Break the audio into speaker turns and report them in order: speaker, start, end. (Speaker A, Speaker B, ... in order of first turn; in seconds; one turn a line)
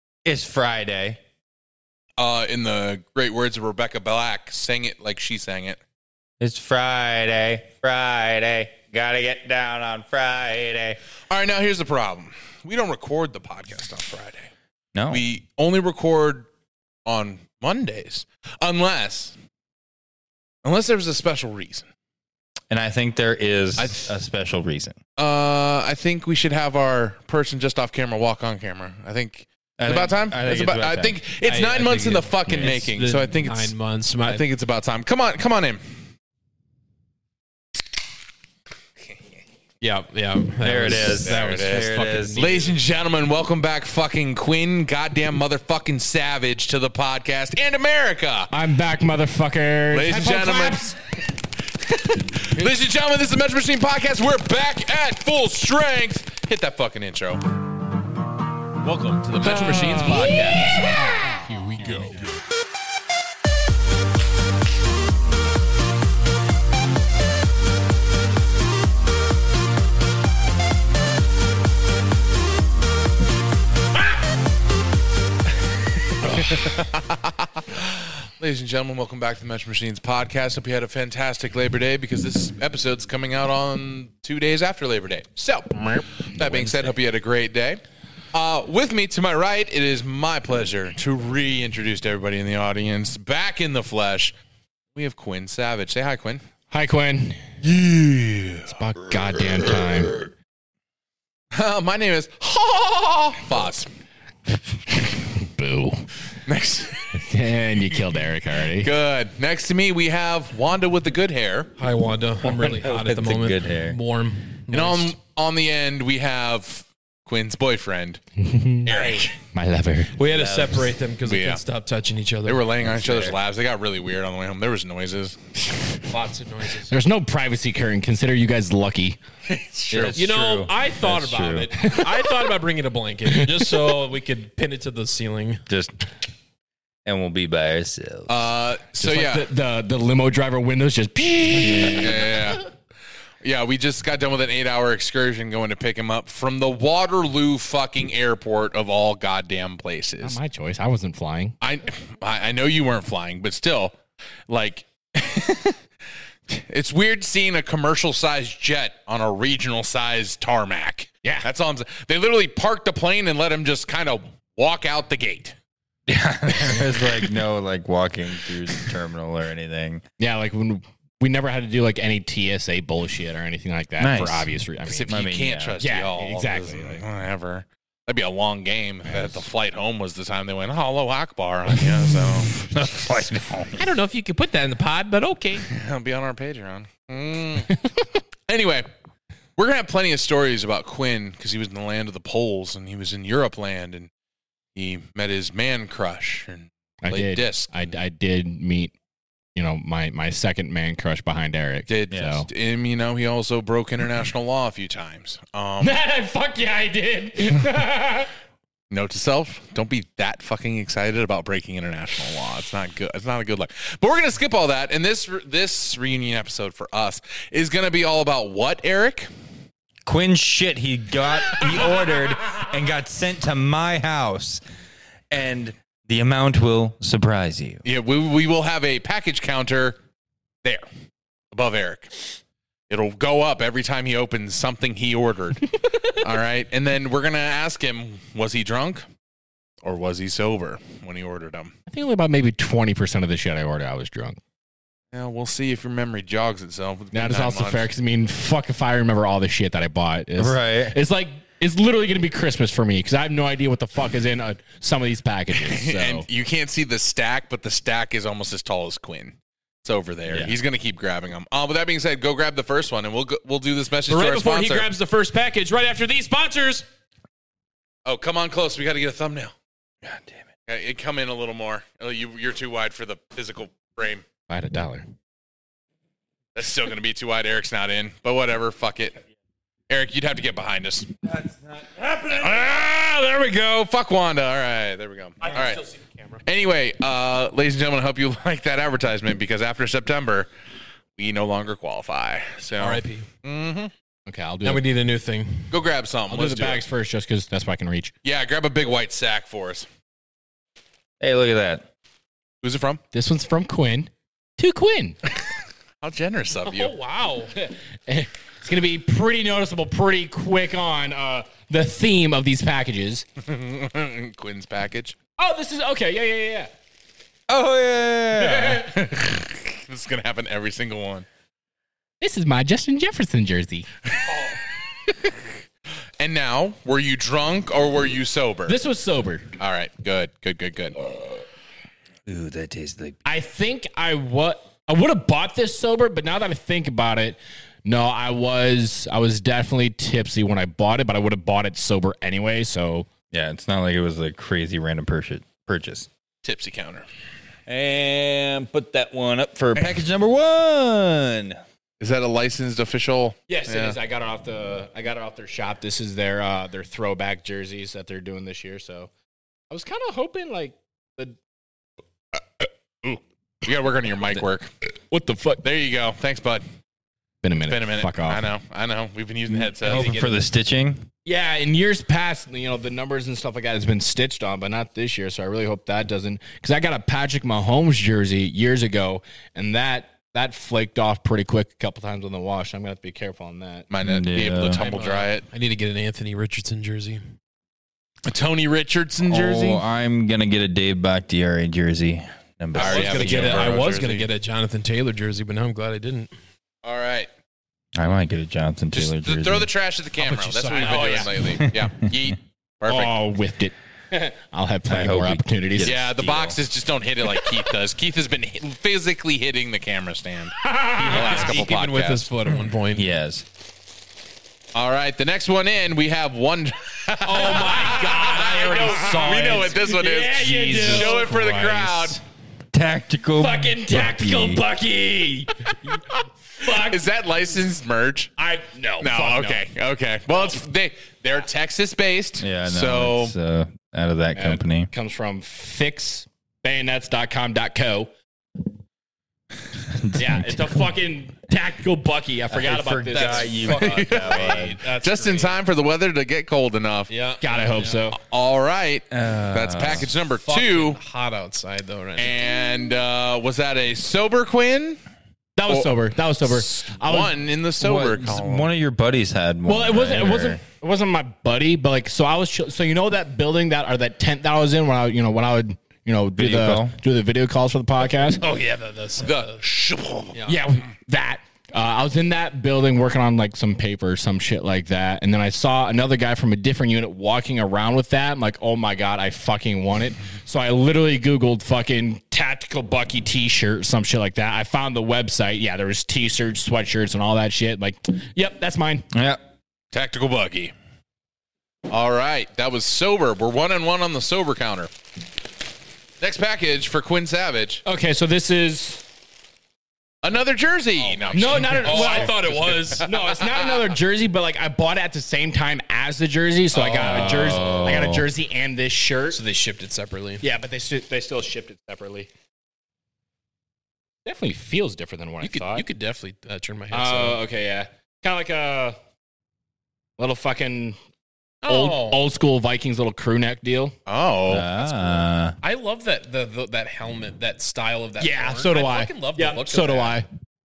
Speaker A: 0.2-1.2
Speaker B: 2.2-5.8
Speaker A: 6.4-11.0
Speaker B: 11.3-14.5
Speaker A: 14.9-15.2
Speaker B: 15.1-16.5
Speaker B: 17.1-19.4
Speaker B: 20.6-21.9
Speaker A: 22.7-25.0
Speaker B: 23.8-24.1
Speaker B: 25.2-36.0
Speaker A: 29.8-31.2
Speaker C: 31.4-34.5
Speaker A: 32.5-32.8
Speaker C: 39.8-42.8
Speaker A: 40.6-42.4
Speaker B: 40.9-48.5
Speaker D: 48.5-51.0
Speaker B: 49.9-50.8
Speaker B: 51.9-57.4
Speaker B: 58.8-60.7
Speaker D: 59.4-60.6
Speaker C: 59.6-60.4
Speaker C: 61.4-62.2
Speaker B: 76.4-87.8
Speaker D: 85.7-86.9
Speaker B: 88.3-94.3
Speaker B: 95.0-96.4
Speaker D: 96.7-97.4
Speaker B: 97.6-98.8
Speaker D: 98.7-100.2
Speaker B: 101.5-103.9
Speaker D: 105.3-106.1
Speaker B: 106.5-107.1
Speaker D: 107.1-108.9
Speaker B: 108.8-111.7
Speaker C: 111.8-115.2
Speaker A: 112.5-114.0
Speaker B: 114.7-118.2
Speaker D: 118.4-119.0
Speaker B: 118.8-119.4
Speaker C: 118.9-119.2
Speaker D: 119.5-120.2
Speaker C: 120.2-122.7
Speaker A: 120.3-120.9
Speaker B: 121.3-121.6
Speaker B: 122.5-125.4
Speaker A: 122.8-123.4
Speaker C: 126.0-127.0
Speaker D: 126.9-129.2
Speaker B: 129.7-130.2
Speaker A: 129.9-131.7
Speaker C: 130.1-135.6
Speaker D: 131.8-132.6
Speaker D: 133.5-133.9
Speaker A: 135.7-135.9
Speaker A: 137.1-138.5
Speaker B: 138.3-139.5
Speaker D: 139.0-142.6
Speaker B: 141.8-142.7
Speaker B: 143.4-150.4
Speaker D: 150.2-151.6
Speaker B: 151.6-154.0
Speaker B: 154.5-155.8
Speaker B: 156.5-165.6
Speaker A: 166.1-170.0
Speaker B: 166.5-167.2
Speaker D: 170.2-175.3
Speaker A: 174.0-174.5
Speaker B: 174.9-182.6
Speaker A: 175.1-175.8
Speaker D: 175.8-177.0
Speaker A: 182.6-183.9
Speaker C: 183.8-185.7
Speaker B: 185.7-187.7
Speaker B: 188.5-188.9
Speaker B: 189.6-194.1
Speaker B: 194.8-197.9
Speaker D: 197.0-198.9
Speaker D: 199.6-202.5
Speaker B: 201.9-206.0
Speaker A: 202.1-202.4
Speaker D: 205.8-208.3
Speaker B: 208.9-219.3
Speaker A: 220.1-224.6
Speaker A: 225.3-227.8
Speaker B: 227.8-230.0
Speaker B: 231.5-232.4
Speaker B: 232.9-239.1
Speaker B: 239.8-241.7
Speaker D: 241.9-244.4
Speaker B: 245.1-247.9
Speaker D: 247.1-256.3
Speaker A: 250.4-251.0
Speaker B: 255.5-264.9
Speaker A: 260.3-260.5
Speaker C: 264.1-266.9
Speaker B: 268.1-269.5
Speaker A: 270.0-270.4
Speaker B: 270.7-274.2
Speaker D: 274.5-275.1
Speaker B: 276.6-279.2
Speaker B: 279.9-281.2
Speaker B: 282.0-285.8
Speaker C: 285.4-286.3
Speaker B: 286.4-290.5
Speaker B: 291.2-293.9
Speaker C: 292.8-293.3
Speaker D: 294.3-294.9
Speaker C: 294.6-295.7
Speaker B: 295.7-296.8
Speaker D: 296.3-298.1
Speaker B: 298.2-299.9
Speaker A: 301.2-301.9
Speaker B: 302.6-303.0
Speaker D: 303.1-305.2
Speaker B: 306.0-306.9
Speaker C: 306.7-307.5
Speaker D: 307.5-313.3
Speaker B: 313.4-315.2
Speaker D: 315.4-316.7
Speaker A: 317.5-318.9
Speaker D: 318.4-319.2
Speaker B: 319.7-321.3
Speaker D: 322.2-323.9
Speaker B: 326.2-328.8
Speaker D: 328.7-329.5
Speaker B: 329.6-331.0
Speaker A: 332.3-333.2
Speaker D: 333.2-343.1
Speaker A: 343.3-346.1
Speaker B: 346.4-347.1
Speaker A: 347.7-351.6
Speaker B: 349.8-350.0
Speaker B: 352.0-354.0
Speaker D: 353.5-359.1
Speaker D: 359.7-361.4
Speaker D: 362.4-363.2
Speaker B: 363.6-364.7
Speaker D: 365.1-365.6
Speaker B: 365.6-366.6
Speaker D: 367.4-368.5
Speaker B: 367.7-370.4
Speaker A: 369.8-371.1
Speaker D: 371.2-383.9
Speaker B: 383.9-385.5
Speaker A: 384.0-384.8
Speaker C: 384.7-387.2
Speaker B: 388.2-389.8
Speaker A: 389.2-393.8
Speaker B: 392.7-394.3
Speaker C: 392.8-396.3
Speaker B: 396.8-397.3
Speaker A: 398.0-399.7
Speaker B: 398.9-403.1
Speaker C: 400.2-401.3
Speaker D: 400.8-401.3
Speaker A: 401.6-401.9
Speaker D: 402.9-405.9
Speaker A: 404.9-406.6
Speaker B: 405.8-412.3
Speaker D: 410.6-411.4
Speaker C: 411.0-413.1
Speaker A: 412.9-413.4
Speaker B: 414.8-422.2
Speaker C: 417.2-419.9
Speaker D: 417.4-421.3
Speaker C: 420.4-422.2
Speaker A: 422.7-424.6
Speaker D: 423.4-427.1
Speaker B: 426.6-428.3
Speaker D: 428.4-429.7
Speaker B: 429.0-433.4
Speaker A: 432.4-434.9
Speaker D: 434.4-438.1
Speaker A: 439.9-440.7
Speaker D: 440.1-444.8
Speaker A: 442.5-444.7
Speaker C: 443.1-445.6
Speaker B: 443.8-447.1
Speaker C: 447.1-448.1
Speaker D: 447.4-448.2
Speaker B: 448.1-451.0
Speaker A: 449.1-450.1
Speaker C: 450.4-452.4
Speaker B: 452.2-455.0
Speaker D: 455.6-457.4
Speaker B: 455.7-458.7
Speaker A: 457.8-460.6
Speaker D: 459.7-468.4
Speaker A: 466.4-466.9
Speaker C: 468.4-469.6
Speaker B: 469.2-470.4
Speaker C: 470.3-470.6
Speaker D: 470.5-489.1
Speaker A: 489.1-489.4
Speaker B: 489.9-490.7
Speaker B: 491.9-494.9
Speaker B: 496.2-497.8
Speaker D: 497.9-499.1
Speaker B: 500.2-503.8
Speaker C: 501.0-503.1
Speaker D: 501.3-509.4
Speaker C: 506.7-508.1
Speaker A: 507.0-508.3
Speaker C: 509.3-510.4
Speaker D: 510.4-512.3
Speaker D: 514.2-515.9
Speaker C: 515.4-517.4
Speaker D: 516.9-519.0
Speaker D: 520.2-521.0
Speaker D: 521.6-524.0
Speaker C: 521.7-522.2
Speaker B: 524.1-524.7
Speaker A: 524.5-525.6
Speaker C: 525.6-530.2
Speaker D: 528.2-530.3